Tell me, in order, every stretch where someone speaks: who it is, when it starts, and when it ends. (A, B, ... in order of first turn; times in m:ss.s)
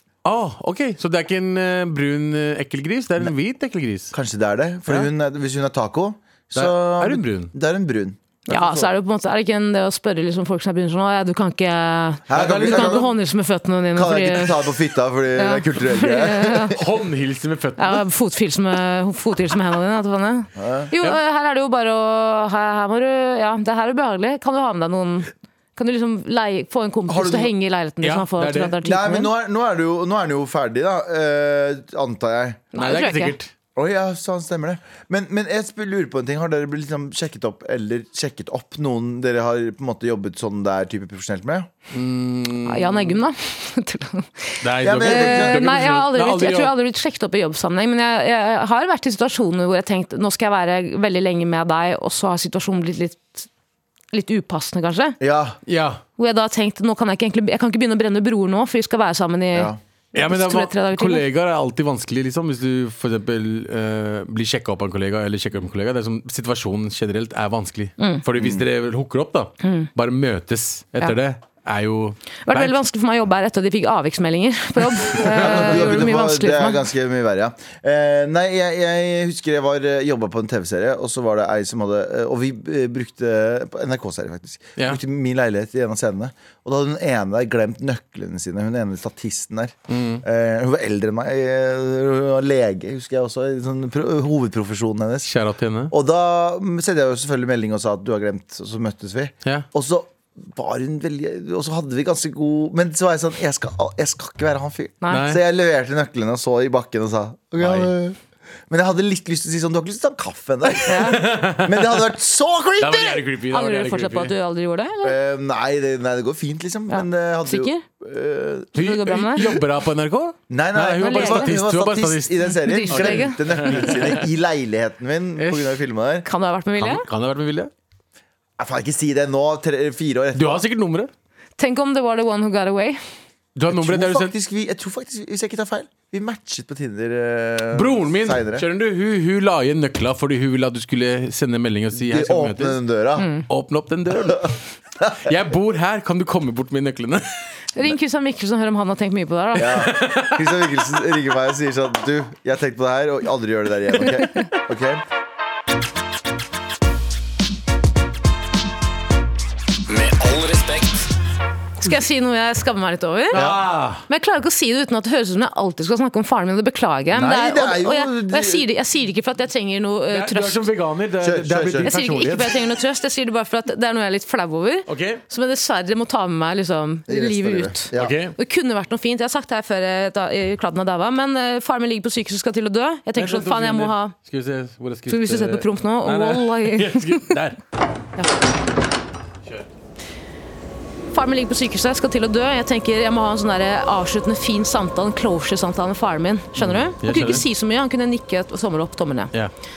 0:00.2-0:04.1 A
0:04.1-0:08.9 B
0:06.5-0:07.5 A
0:08.5-0:14.7 C
0:12.3-0:13.1 B
0:12.3-0:13.1 A
0:14.0-0:16.8 B
0:15.4-0:16.8 C
0:16.7-0:18.0 A
0:17.8-0:29.3 C
0:20.6-0:20.9 B
0:27.1-0:27.5 B
0:28.0-0:28.8 A
0:28.8-0:32.6 B
0:32.7-0:33.4 C
0:32.8-0:33.5 A
0:33.8-0:41.7 B
0:41.9-0:43.2 A
0:42.7-0:53.5 C
0:44.6-0:46.7 A
0:44.8-0:45.6 B
0:54.1-0:55.2 C
0:55.2-0:55.6 B
0:55.7-0:56.0 A
0:56.2-1:01.2 C
1:00.2-1:12.8 A
1:08.4-1:08.6 B
1:09.6-1:09.9 C
1:12.5-1:16.9 C
1:15.1-1:16.0 A
1:15.2-1:35.3 B
1:29.9-1:30.2 A
1:35.2-1:35.9 A
1:35.9-1:48.2 B
1:45.1-1:45.4 A
1:47.6-1:47.9 A
1:48.7-1:53.2 B
1:50.9-1:51.2 C
1:50.9-1:52.0 A
1:52.8-1:54.3 A
1:53.5-1:55.2 C
1:55.0-1:58.8 B
1:56.9-1:57.8 C
1:58.8-1:59.5 C
1:58.8-2:04.3 A
2:00.5-2:06.3 B
2:01.0-2:01.5 C
2:02.6-2:03.9 C
2:05.4-2:05.8 A
2:06.2-2:07.0 C
2:06.8-2:07.7 A
2:08.6-2:10.6 B
2:10.4-2:11.1 A
2:11.6-2:13.0 C
2:13.6-2:14.3 A
2:13.7-2:18.7 B
2:17.7-2:22.8 A
2:21.9-2:23.3 B
2:23.2-2:23.5 C
2:23.5-2:24.6 A
2:25.2-2:27.2 A
2:27.8-2:29.8 C
2:29.6-2:35.0 B
2:29.7-2:30.5 A
2:41.8-2:43.4 C
2:43.3-2:44.0 A
2:43.3-2:43.6 B
2:44.1-2:50.7 C
2:47.1-2:48.7 B
2:50.1-2:52.6 A
2:51.2-2:52.0 B
2:51.8-3:04.1 C
2:54.9-2:55.2 A
2:57.1-2:58.2 B
2:58.0-2:58.4 A
3:03.2-3:07.6 A
3:05.1-3:07.3 C
3:11.1-3:19.3 C
3:16.6-3:17.4 A